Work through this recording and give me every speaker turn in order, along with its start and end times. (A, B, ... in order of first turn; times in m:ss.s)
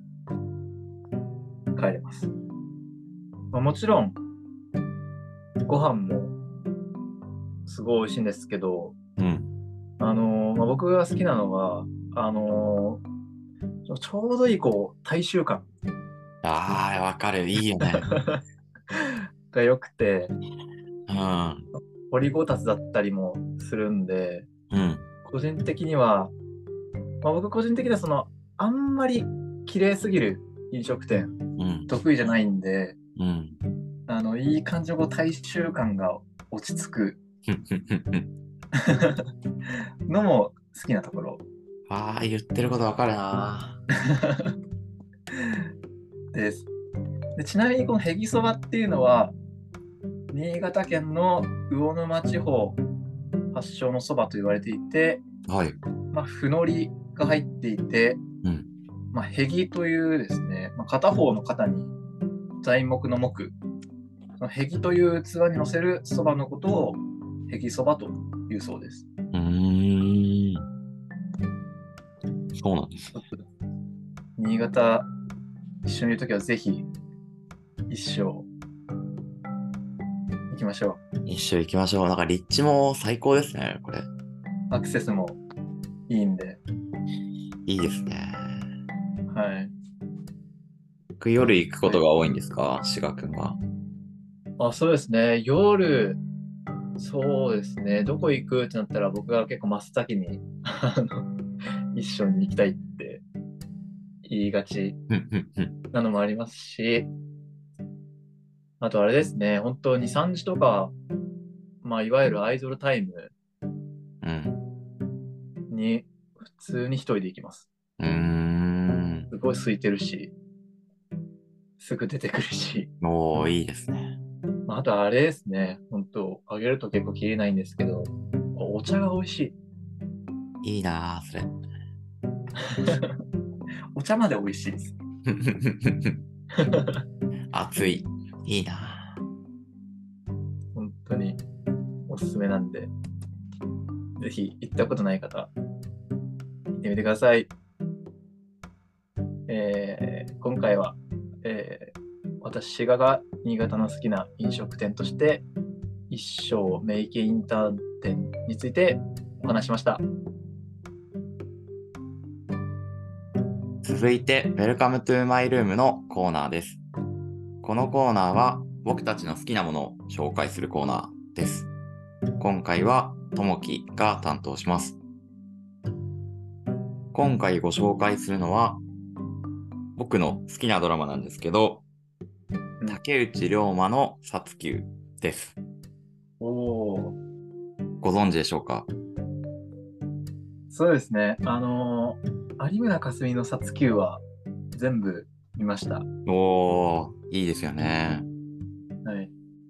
0:01.7-0:02.3 A
0:03.5-0:04.2 A
0:05.6-0:06.4 A
0:07.7-0:09.0 A
0:09.2-0:09.5 B
0:10.0-0:13.0 A
0:13.9-0:15.7 A
0:16.4-0:18.2 B
0:18.0-0:20.3 A
0:21.1-0:21.7 B
0:22.1-0:24.5 A
0:24.7-0:25.1 B
0:25.2-0:26.3 A
0:27.2-0:31.4 A
0:31.6-0:31.9 B
0:31.9-0:33.0 A
0:33.2-0:33.6 B
0:34.1-0:37.2 A
0:37.5-0:38.3 B
0:38.8-0:39.2 A
0:40.1-0:41.4 A
0:41.9-0:43.8 B
0:44.1-0:44.5 A
0:46.3-0:46.7 A
0:47.4-0:49.4 A
0:50.3-0:52.8 A
0:53.5-0:55.2 A
0:55.5-0:55.8 B
0:56.1-0:58.2 A
0:58.4-0:58.7 B
0:59.1-1:01.9 A
1:02.6-1:03.6 A
1:04.4-1:09.0 A
1:09.3-1:10.6 B
1:12.6-1:13.1 B
1:13.1-1:13.4 A
1:14.4-1:15.1 A
1:15.8-1:16.9 A
1:17.9-1:18.5 A
1:20.5-1:21.0 A
1:21.3-1:24.1 B
1:24.7-1:25.4 A
1:26.1-1:26.6 A
1:27.7-1:28.6 B
1:29.3-1:29.7 A
1:31.2-1:33.6 B
1:34.6-1:36.2 A
1:37.0-1:41.3 A
1:42.0-1:43.2 A
1:44.2-1:45.0 A
1:45.1-1:45.8 B
1:45.9-1:47.1 A
1:48.8-1:50.9 A
1:51.8-1:53.3 A
1:54.2-1:54.6 B
1:55.7-1:57.7 A
1:58.0-1:59.3 B
1:59.3-2:00.3 A
2:01.8-2:02.9 A
2:03.0-2:04.2 B
2:04.7-2:09.6 A
2:10.6-2:11.6 B
2:12.6-2:13.2 A
2:14.0-2:14.9 A
2:15.3-2:16.2 B
2:16.6-2:17.0 A
2:17.5-2:19.2 B
2:20.8-2:21.4 A
2:22.1-2:22.9 A
2:24.2-2:25.5 A
2:26.7-2:27.5 A
2:29.5-2:35.4 A
2:36.1-2:40.0 A
2:43.8-2:46.8 B
2:47.6-2:51.7 B
2:52.4-2:55.0 B
2:57.1-2:58.8 B
3:00.0-3:01.8 B
3:02.9-3:05.6 B
3:06.4-3:07.2 A
3:08.0-3:08.9 B
3:10.7-3:14.2 A
3:14.8-3:16.1 A
3:16.3-3:18.3 B
3:19.0-3:19.3 A